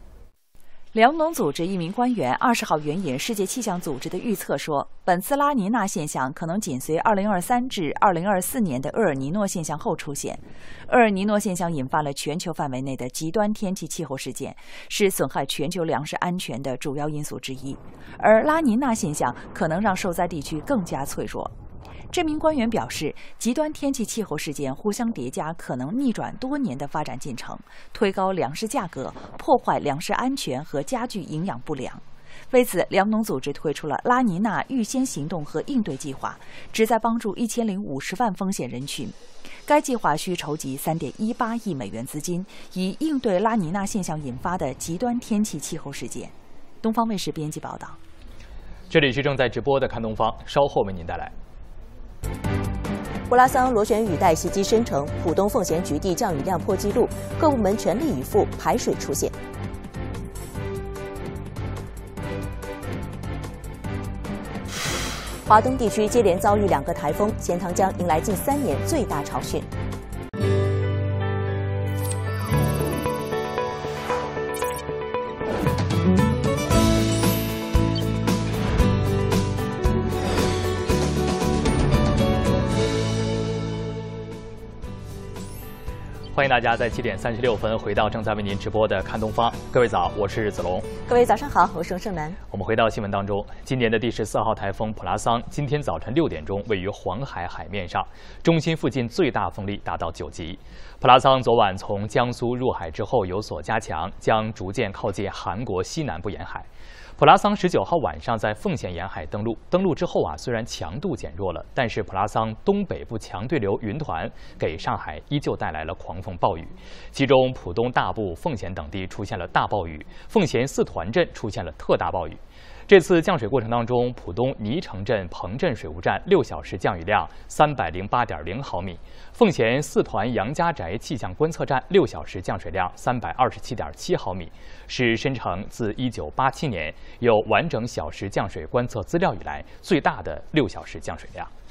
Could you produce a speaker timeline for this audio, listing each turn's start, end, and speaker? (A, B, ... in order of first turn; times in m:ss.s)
0:00.9-0:21.5 A
0:22.1-0:48.0 A
0:48.9-0:51.3 B
0:53.3-0:59.4 C
1:05.5-1:09.7 C
1:26.3-1:30.9 B
1:31.1-1:32.4 C
1:32.5-2:21.5 B